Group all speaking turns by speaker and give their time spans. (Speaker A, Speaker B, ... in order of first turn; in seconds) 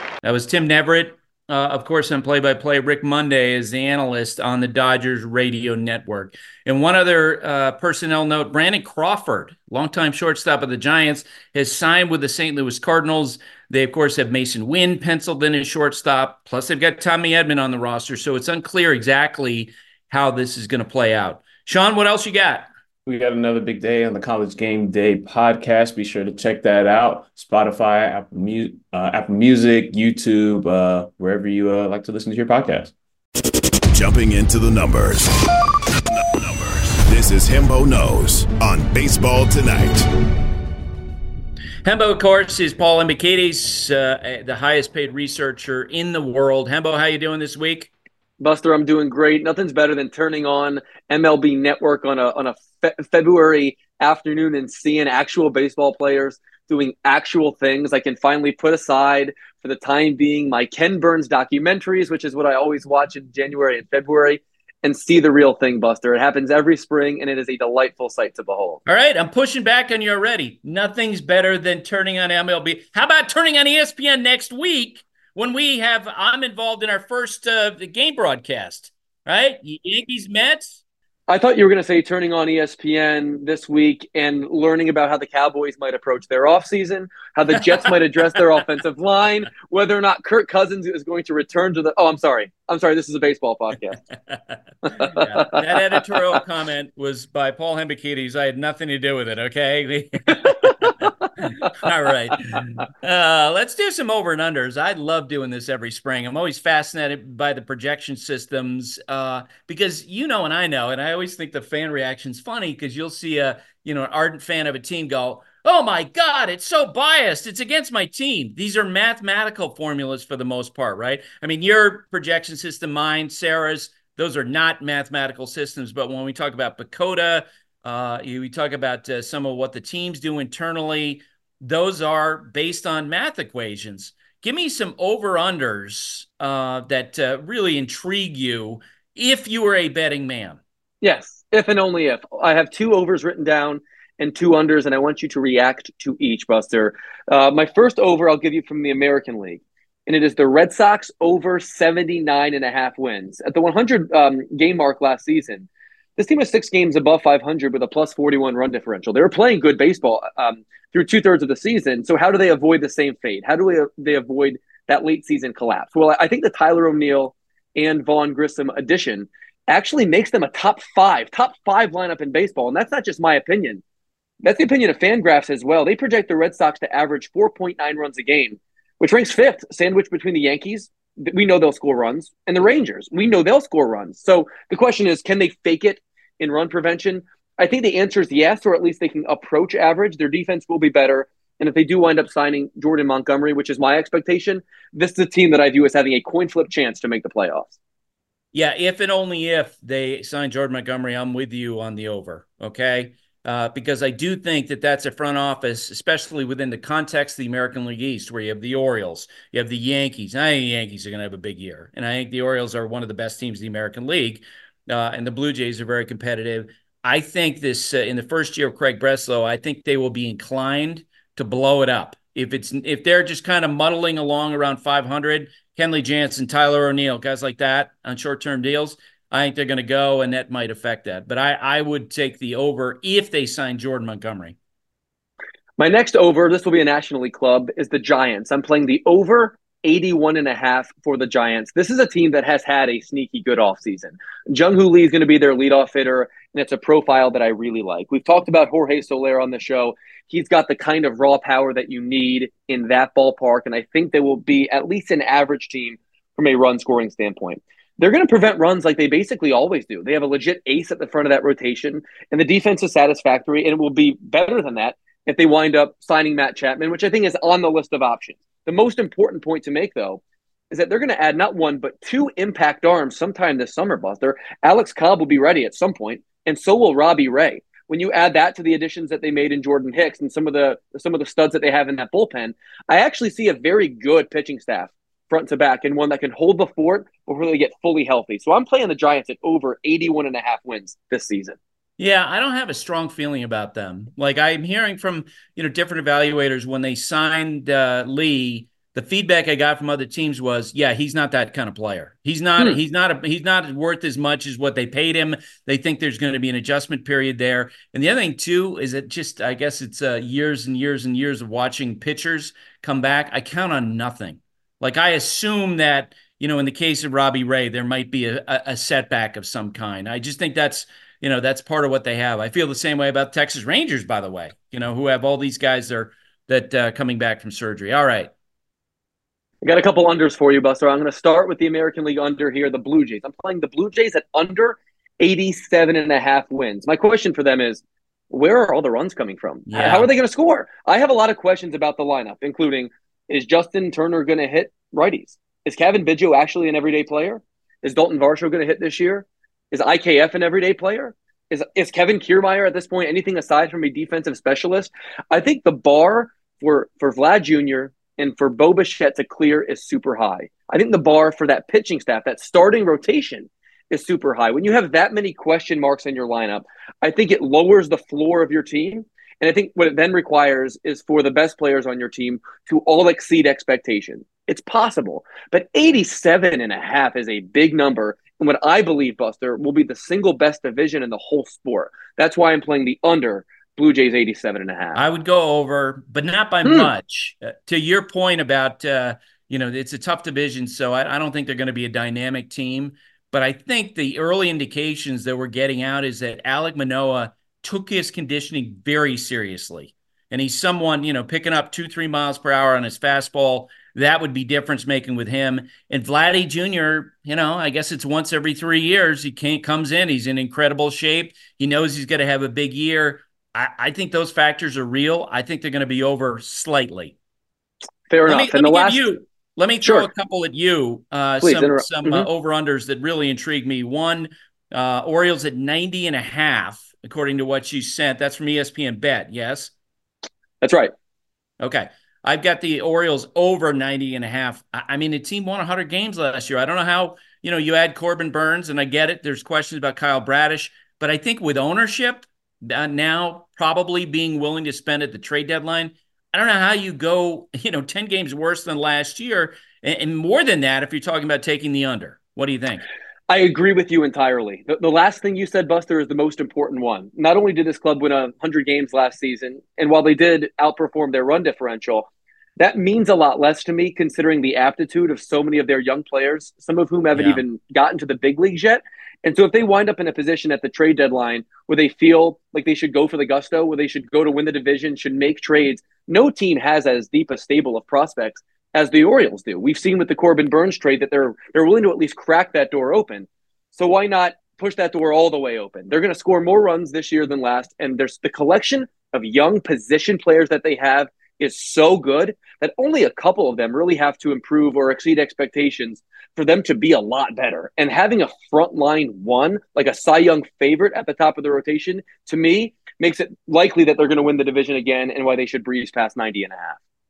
Speaker A: 0.2-22.7, 41.8-47.9, 68.8-80.8, 94.3-101.1, 101.6-140.6, 198.5-234.6, 292.0-328.3, 339.7-340.1, 384.9-417.1, 418.3-429.7, 431.6-452.8, 467.1-467.4
Speaker B: 23.1-32.9
Speaker C: 33.9-35.3, 36.1-40.1
Speaker D: 48.4-68.8, 81.3-94.0, 95.2-95.6, 141.0-173.8, 174.4-197.7, 235.8-291.6, 329.6-385.0, 418.1-419.0, 419.8-420.1, 421.4-422.3, 430.6-430.9, 453.3-506.8